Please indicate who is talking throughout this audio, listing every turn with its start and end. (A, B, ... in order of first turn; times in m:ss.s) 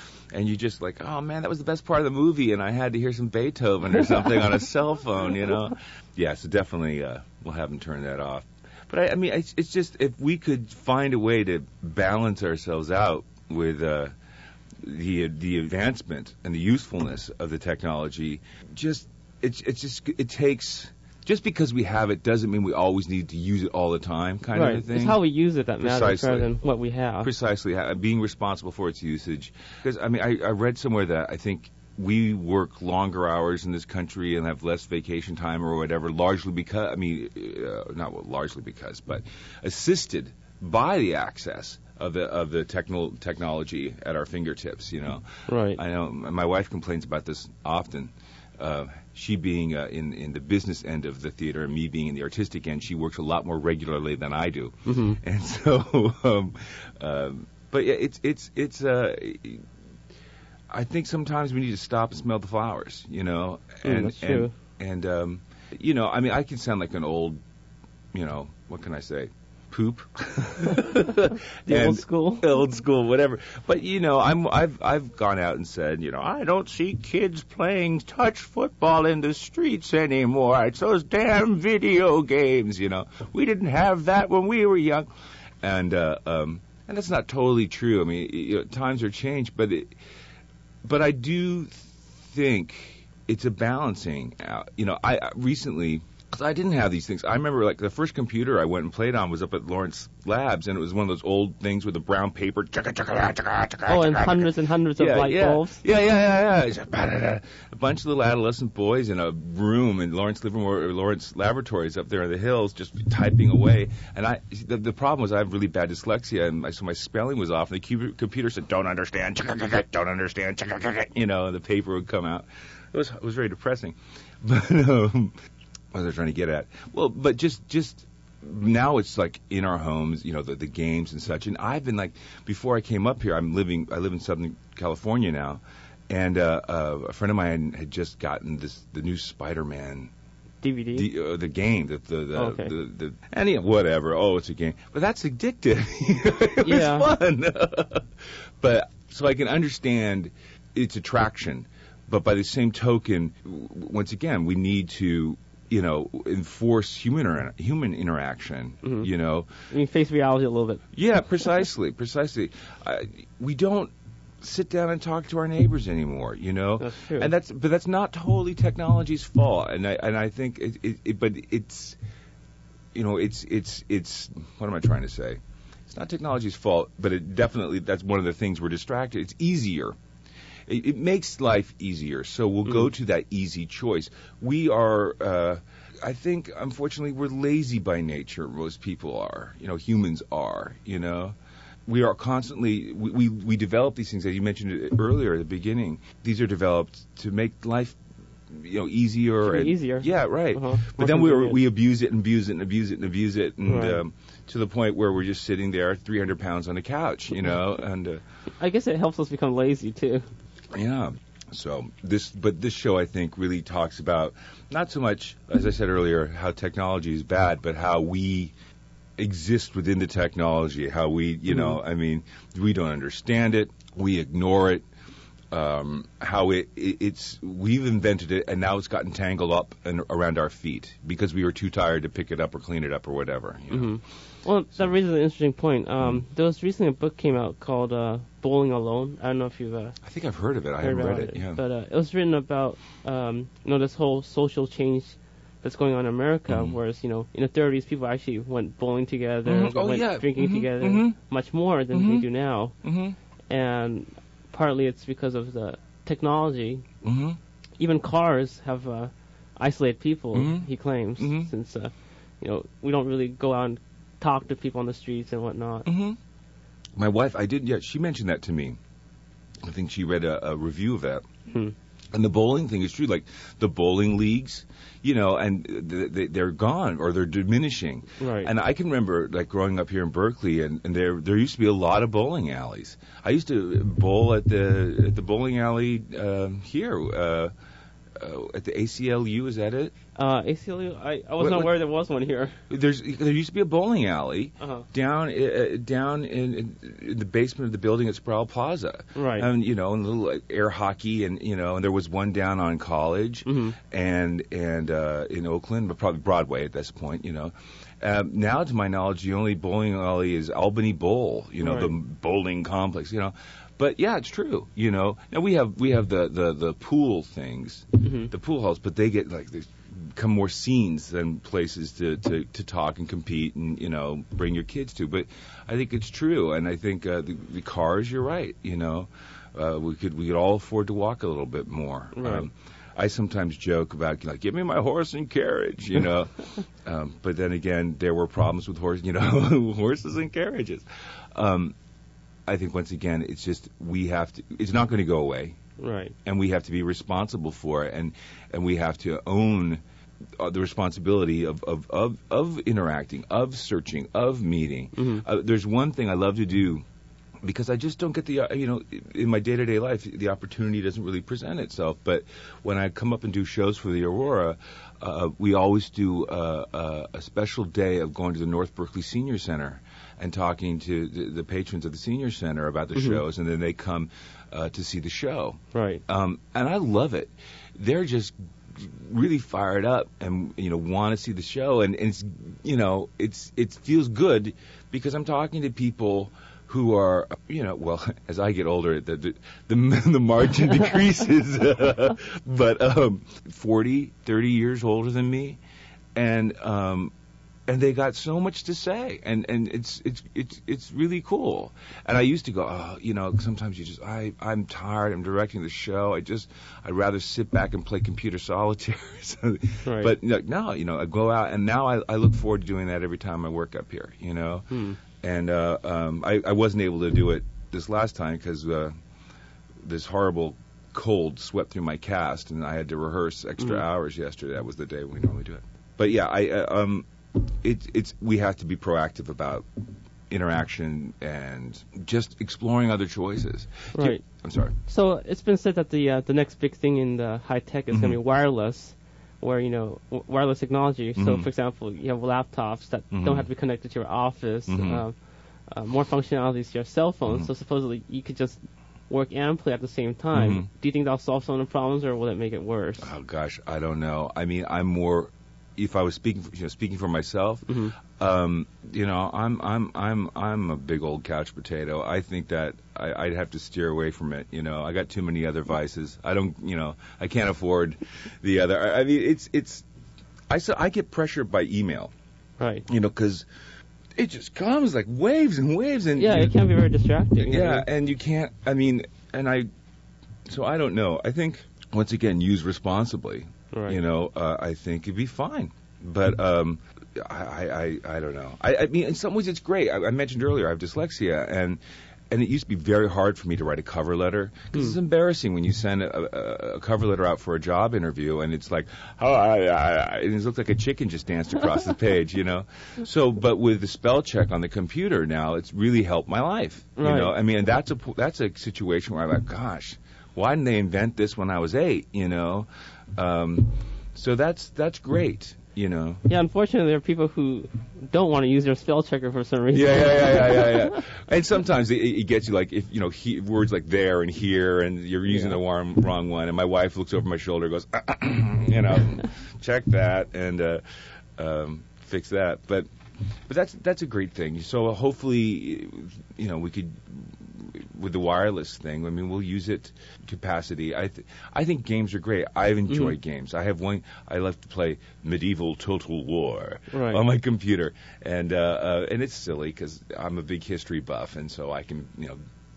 0:00.3-0:14.1 A
0:14.8-0:25.2 A
0:24.5-0:27.3 B
0:25.8-0:26.5 A
0:27.2-0:59.6 A
0:45.5-0:45.8 B
0:54.8-0:55.2 B
1:00.7-1:07.4 A
1:03.8-1:04.5 B
1:08.1-1:25.1 A
1:11.6-1:12.5 B
1:25.6-1:29.9 A
1:30.8-2:05.4 A
1:43.9-1:45.8 B
2:05.9-2:20.1 A
2:20.6-2:21.0 B
2:20.9-2:28.0 A
2:22.4-2:22.7 B
2:26.6-2:27.1 B
2:28.6-2:39.5 A
2:38.8-2:39.1 B
2:39.7-2:40.8 B
2:40.9-2:52.0 A
2:46.8-2:47.3 B
2:52.9-3:00.0 A
3:00.7-3:18.0 A
3:18.5-3:28.2 A
3:19.4-3:21.6 B
3:23.6-3:24.0 B
3:28.6-3:30.2 B
3:30.7-3:38.5 A
3:39.2-3:44.8 A
3:41.5-3:41.8 B
3:45.5-3:54.0 A
3:53.7-4:00.0 B
4:00.0-4:01.6 A
4:00.8-4:12.7 B
4:06.5-4:06.7 A
4:09.4-4:11.2 A
4:11.9-4:12.2 A
4:12.8-4:13.2 A
4:13.5-4:16.8 B
4:17.0-4:17.4 A
4:17.8-4:25.9 B
4:20.3-4:20.7 A
4:21.2-4:21.5 A
4:25.8-4:26.2 A
4:27.0-4:28.8 A
4:29.6-4:31.2 A
4:32.1-4:47.5 A
4:38.2-4:38.5 B
4:48.2-4:49.9 A
4:50.2-4:52.6 B
4:51.4-4:51.7 A
4:52.7-5:41.8 A
4:54.6-4:54.8 B
4:59.1-4:59.5 B
5:03.4-5:03.8 B
5:11.6-5:11.9 B
5:18.0-5:18.3 B
5:32.2-5:32.5 B
5:42.5-5:45.6 A
5:45.8-5:46.1 B
5:46.2-5:49.8 A
5:50.4-5:56.8 A
5:54.9-5:55.2 B
5:57.4-6:35.6 A
6:12.9-6:13.2 B
6:15.7-6:16.0 B
6:36.1-6:37.1 A
6:37.7-6:58.9 A
6:49.8-6:50.1 B
6:54.7-6:55.0 B
6:59.8-7:09.6 A
7:10.3-7:14.8 A
7:13.9-7:14.2 B
7:14.9-7:25.1 B
7:17.9-7:18.2 A
7:21.2-7:21.5 A
7:23.1-7:23.5 A
7:24.7-7:25.0 A
7:25.7-7:33.1 B
7:30.3-7:30.7 A
7:33.0-7:49.8 A
7:37.7-7:37.9 B
7:50.5-7:52.1 A
7:52.6-7:52.8 B
7:52.9-7:53.4 A
7:54.2-7:56.6 A
7:56.2-7:57.8 B
7:57.4-7:59.7 A
8:00.5-8:11.8 A
8:03.7-8:04.0 B
8:12.3-8:36.2 A
8:27.0-8:27.3 B
8:36.2-8:41.0 B
8:39.7-8:50.8 A
8:45.3-8:45.6 B
8:51.4-8:52.9 A
8:53.5-9:12.4 A
9:02.9-9:03.2 B
9:06.9-9:07.2 B